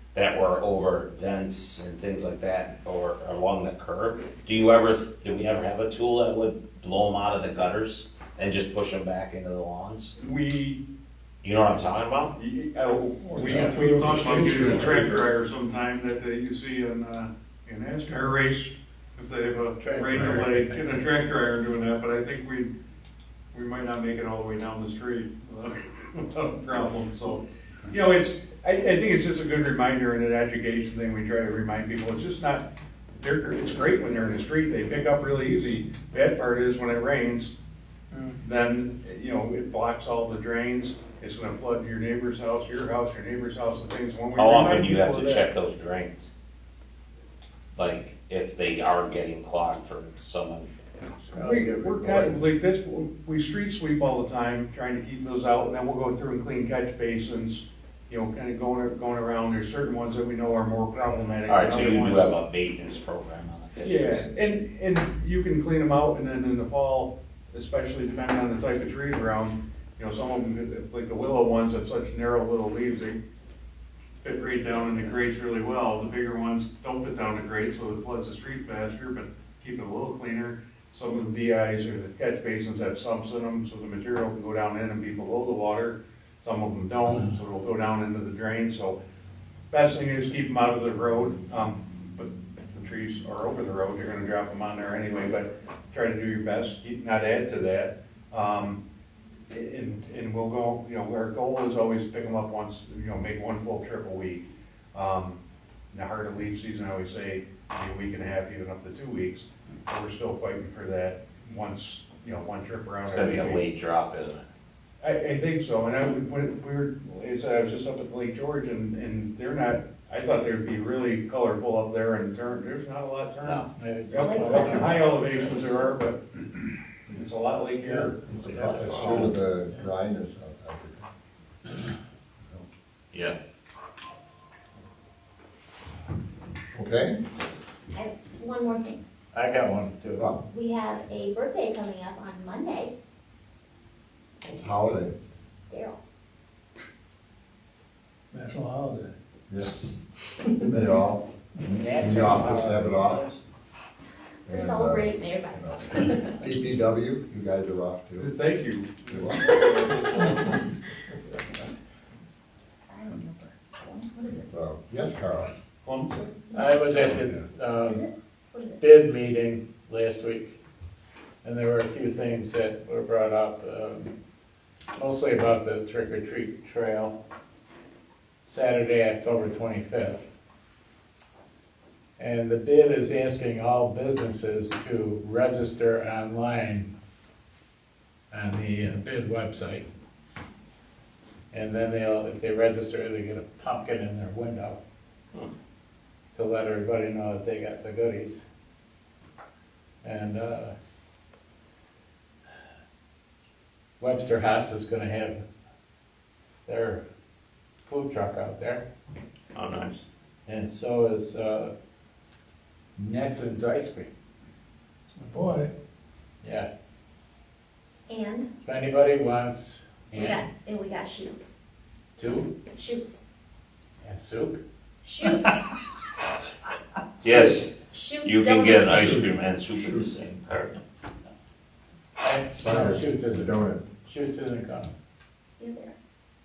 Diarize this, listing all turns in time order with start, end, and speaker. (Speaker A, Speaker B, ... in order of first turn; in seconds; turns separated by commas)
Speaker A: 0.1-10.2, Speaker B: 10.2-10.8, Speaker A: 11.4-12.3, Speaker B: 12.3-22.7, Speaker C: 13.3-15.0, Speaker D: 13.3-15.2, Speaker C: 19.8-20.8, Speaker B: 23.5-37.5, Speaker B: 38.4-45.5, Speaker A: 44.4-46.3, Speaker A: 47.7-50.7, Speaker C: 51.3-52.5, Speaker B: 51.3-62.3, Speaker A: 61.5-64.5, Speaker B: 63.8-73.2, Speaker B: 74.2-89.0, Speaker B: 89.7-98.8, Speaker B: 99.5-105.4, Speaker B: 105.9-113.6, Speaker A: 113.1-114.5, Speaker B: 115.0-126.2, Speaker C: 123.4-125.6, Speaker E: 124.1-125.8, Speaker B: 127.1-129.3, Speaker C: 127.8-129.8, Speaker F: 128.3-131.1, Speaker A: 128.9-129.2, Speaker F: 136.7-137.2, Speaker E: 137.9-139.0, Speaker C: 139.3-140.3, Speaker E: 140.4-142.9, Speaker F: 144.4-145.2, Speaker E: 145.7-146.0, Speaker D: 148.3-149.2, Speaker F: 149.5-149.8, Speaker F: 150.5-151.3, Speaker D: 151.6-151.9, Speaker C: 151.7-153.4, Speaker F: 151.9-153.2, Speaker E: 154.4-156.4, Speaker F: 154.5-158.3, Speaker B: 158.2-160.6, Speaker F: 159.1-159.7, Speaker E: 162.9-164.5, Speaker F: 164.5-165.5, Speaker B: 165.8-166.4, Speaker E: 166.5-166.8, Speaker C: 166.5-168.1, Speaker F: 167.1-167.4, Speaker E: 167.8-168.8, Speaker C: 168.8-170.6, Speaker C: 171.4-174.1, Speaker C: 174.9-177.1, Speaker C: 178.4-180.2, Speaker C: 182.2-186.9, Speaker C: 188.3-189.8, Speaker C: 191.5-194.8, Speaker C: 196.3-198.4, Speaker C: 200.0-200.7, Speaker C: 204.0-205.4, Speaker C: 206.7-207.0, Speaker C: 207.8-208.8, Speaker A: 209.5-210.0, Speaker C: 210.5-211.7, Speaker C: 212.9-214.1, Speaker D: 215.2-215.7, Speaker C: 216.4-216.7, Speaker E: 218.1-218.5, Speaker C: 218.6-220.4, Speaker E: 220.1-221.5, Speaker C: 222.2-222.6, Speaker E: 222.7-223.2, Speaker C: 224.0-224.6, Speaker E: 225.0-225.6, Speaker A: 227.2-230.8, Speaker E: 227.8-229.3, Speaker C: 232.2-234.9, Speaker F: 232.6-233.9, Speaker E: 235.6-235.9